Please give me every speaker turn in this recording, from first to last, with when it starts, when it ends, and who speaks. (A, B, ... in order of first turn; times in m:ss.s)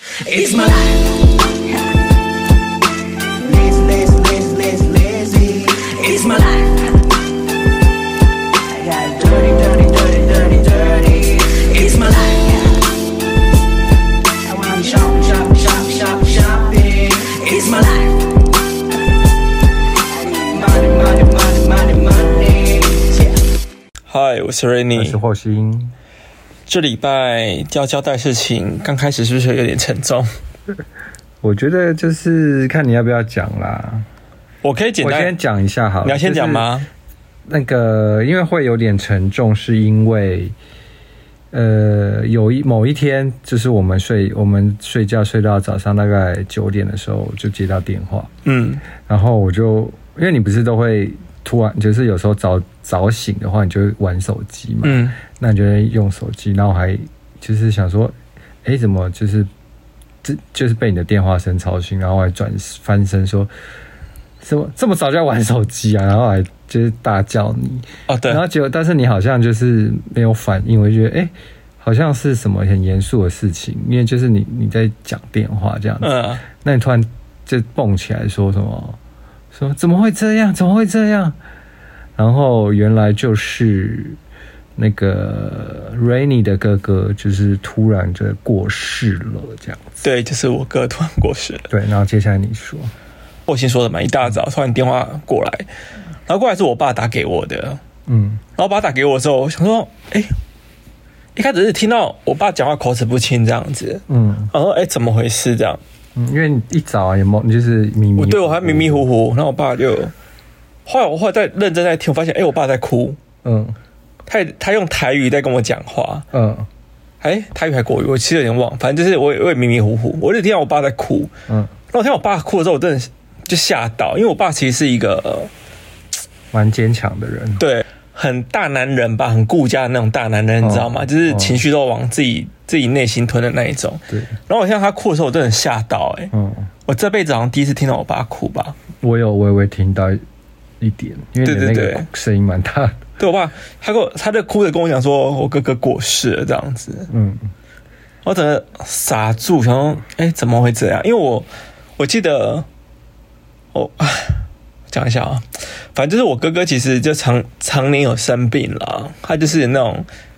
0:00.2-0:01.3 A
0:03.4-0:07.0 A
0:08.7-0:12.9 A
0:14.4-0:18.3 A
0:20.1-0:23.4 A
0:24.1-0:25.2 B
0:24.9-0:25.9 C
0:26.7-0:30.3 B
0:31.4-0:34.0 C
0:34.6-0:35.3 B
0:35.0-0:36.7 C
0:36.0-0:36.9 B
0:37.5-0:40.5 C
0:41.5-0:48.3 C
0:48.4-0:48.8 B
0:49.0-0:59.5 C
0:54.8-0:55.2 B
1:00.2-1:03.5 C
1:04.4-1:19.0 C
1:08.1-1:08.4 B
1:16.0-1:16.4 B
1:19.5-1:21.4 C
1:22.2-1:24.2 C
1:24.8-1:29.8 C
1:30.0-1:31.7 B
1:31.7-1:32.9 C
1:33.5-1:35.6 B
1:36.3-1:37.8 B
1:38.1-1:38.4 C
1:38.6-1:40.3 B
1:41.4-1:45.8 B
1:44.1-1:44.5 C
1:46.2-1:49.0 C
1:48.2-1:50.1 B
1:50.8-1:53.2 B
1:53.4-1:53.8 C
1:54.3-1:56.2 B
1:56.3-1:56.7 C
1:57.2-2:01.3 B
2:01.9-2:05.5 B
2:06.5-2:07.6 C
2:07.6-2:16.3 B
2:10.6-2:11.6 C
2:16.3-2:16.7 C
2:16.9-2:18.8 B
2:19.0-2:20.2 C
2:20.8-2:23.0 C
2:21.4-2:22.0 B
2:23.2-2:27.1 B
2:27.1-2:27.5 C
2:28.2-2:31.5 B
2:32.0-2:32.6 B
2:33.7-2:40.0 B